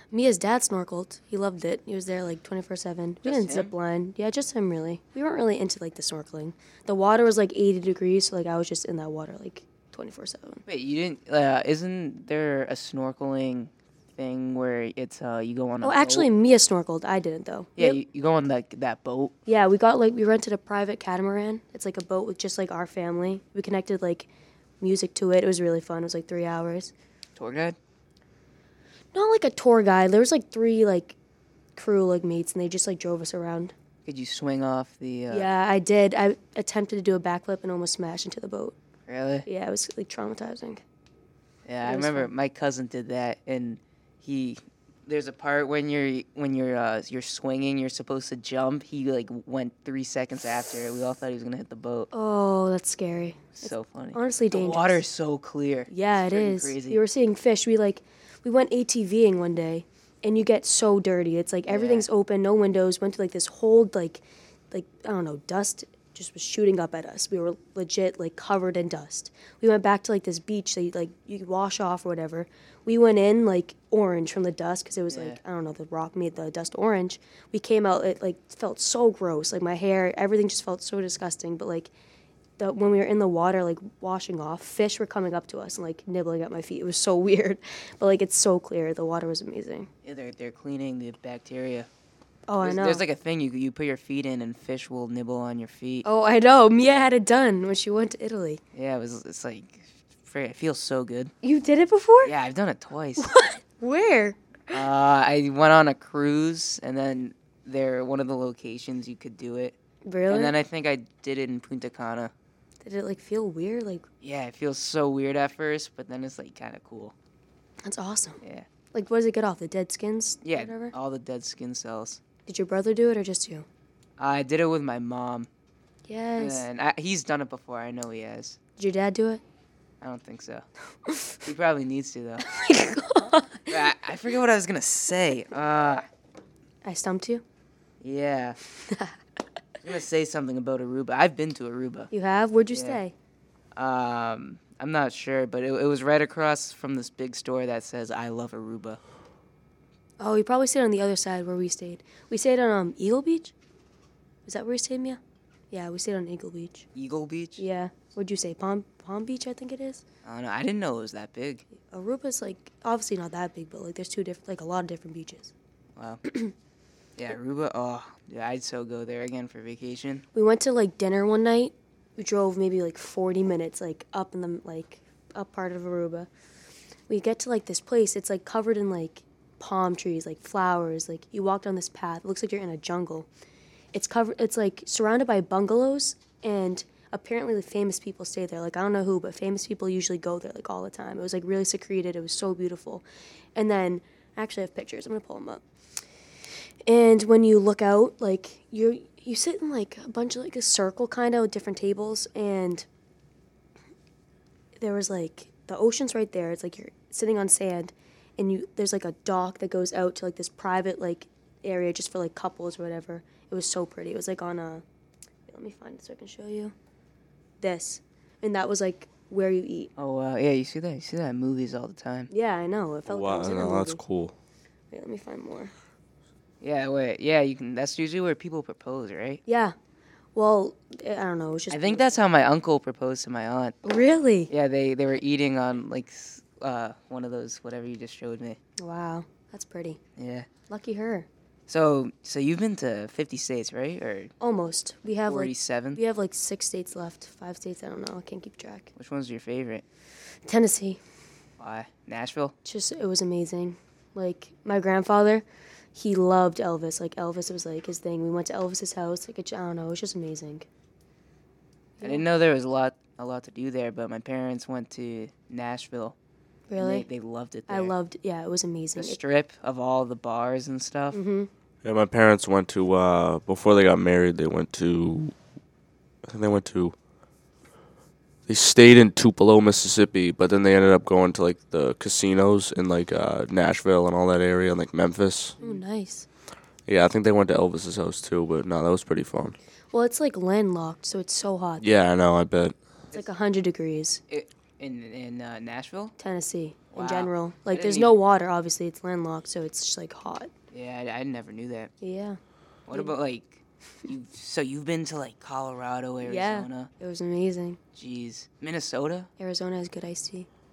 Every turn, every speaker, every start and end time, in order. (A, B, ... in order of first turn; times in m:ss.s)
0:00.1-0:10.6 A
0:03.2-0:03.7 B
0:10.7-0:16.3 B
0:15.8-0:18.0 A
0:17.8-0:19.3 B
0:19.5-0:24.3 A
0:24.8-0:26.9 A
0:27.4-0:27.8 B
0:29.1-0:31.2 A
0:31.8-0:33.7 A
0:34.1-0:35.5 B
0:35.3-0:38.8 A
0:39.1-0:39.5 B
0:39.5-0:40.8 A
0:41.7-0:52.1 B
0:41.8-0:42.3 A
0:52.1-0:55.0 A
0:53.6-0:57.0 B
0:55.9-1:21.9 A
1:01.7-1:02.1 B
1:15.1-1:15.4 B
1:22.6-1:29.9 A
1:30.0-1:31.9 B
1:32.5-1:33.0 A
1:32.6-1:36.1 B
1:36.0-1:38.6 A
1:38.7-1:41.3 B
1:41.4-1:42.3 A
1:42.2-1:43.3 B
1:43.2-1:44.8 A
1:44.7-1:49.8 B
1:50.0-1:50.6 A
1:50.3-1:52.3 B
1:52.8-1:54.0 A
1:54.2-1:57.1 B
1:57.8-1:58.4 A
1:58.4-1:58.7 B
1:58.9-2:00.9 A
2:00.4-2:02.2 B
2:02.5-2:03.7 A
2:04.2-2:05.5 B
2:06.1-2:06.6 A
2:06.4-2:08.6 B
2:08.8-2:09.4 A
2:10.0-2:10.6 B
2:11.1-2:11.4 A
2:11.4-2:12.4 B
2:12.4-2:13.7 A
2:13.7-2:16.1 B
2:16.8-2:17.4 A
2:18.0-2:18.6 B
2:18.9-2:19.1 A
2:19.8-2:22.1 B
2:22.1-2:23.1 A
2:22.7-2:23.0 B
2:23.8-2:29.0 B
2:30.2-2:33.5 A
2:34.5-2:35.2 A
2:35.7-2:36.9 A
2:37.0-2:37.6 B
2:37.6-2:40.0 A
2:40.2-2:41.6 B
2:41.8-2:45.5 A
2:46.0-2:46.2 B
2:46.3-2:46.5 A
2:47.2-2:50.2 B
2:50.3-2:56.3 A
2:57.1-3:03.3 A
3:03.9-3:13.0 A
3:13.6-3:15.6 A
3:16.9-3:22.9 A
3:24.8-3:34.8 A
3:35.5-3:36.7 A
3:37.6-3:39.9 A
3:40.0-3:42.3 B
3:42.3-3:44.0 A
3:43.1-3:44.3 C
3:44.9-3:45.7 A
3:46.6-3:49.4 B
3:49.5-3:49.8 A
3:50.4-3:52.0 A
3:51.7-3:53.8 B
3:53.8-3:54.5 A
3:54.5-3:58.6 B
3:58.8-4:00.0 A
4:00.2-4:00.5 B
4:00.7-4:01.3 A
4:01.7-4:04.3 B
4:04.4-4:08.9 A
4:05.3-4:06.0 B
4:09.0-4:09.8 B
4:10.5-4:11.0 A
4:11.6-4:12.5 B
4:12.6-4:20.7 A
4:22.0-4:22.2 A
4:22.0-4:26.2 B
4:26.7-4:27.1 A
4:26.8-4:27.9 B
4:27.7-4:29.2 A
4:29.0-4:31.2 B
4:31.1-4:31.5 A
4:31.8-4:35.3 C
4:36.3-4:37.0 C
4:38.5-4:45.6 C
4:45.6-4:46.3 A
4:46.9-4:49.6 C
4:49.9-4:51.9 A
4:51.8-4:52.8 C
4:53.1-4:54.2 A
4:54.3-4:56.2 B
4:56.2-5:00.5 A
4:56.9-4:58.2 B
5:00.7-5:01.9 B
5:02.0-5:02.4 A
5:02.9-5:06.9 B
5:06.2-5:07.8 A
5:08.0-5:09.3 B
5:09.4-5:10.5 A